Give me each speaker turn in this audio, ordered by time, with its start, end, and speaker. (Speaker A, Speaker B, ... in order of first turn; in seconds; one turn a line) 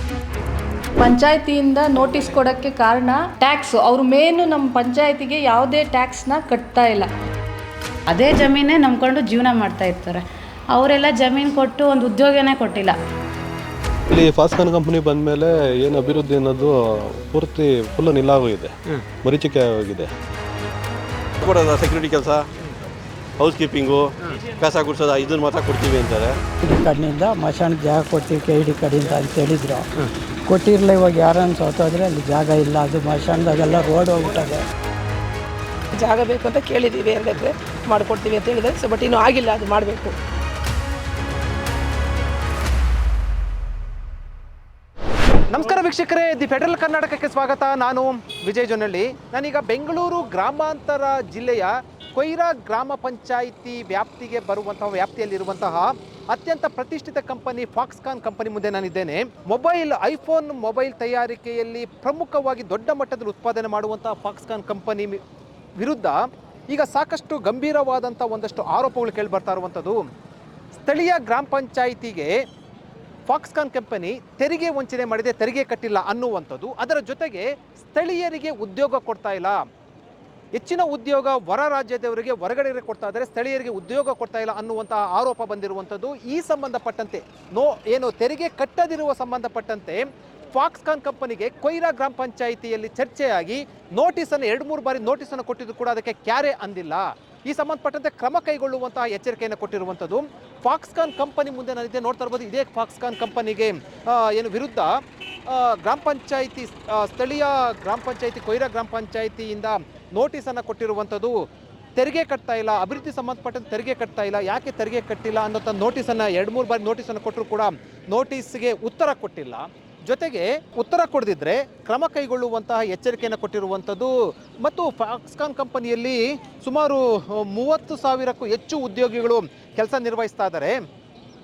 Speaker A: 1.0-7.1
Speaker B: 8.1-12.9
Speaker C: 14.1-20.1
Speaker D: 21.4-22.4
Speaker D: 23.4-26.4
Speaker E: 26.6-29.9
Speaker E: 30.5-34.6
Speaker F: 35.9-40.2
Speaker G: 45.5-65.2
Speaker G: 65.8-70.0
Speaker G: 70.8-72.4
Speaker G: 73.3-79.6
Speaker G: 80.5-111.4
Speaker G: 112.0-130.8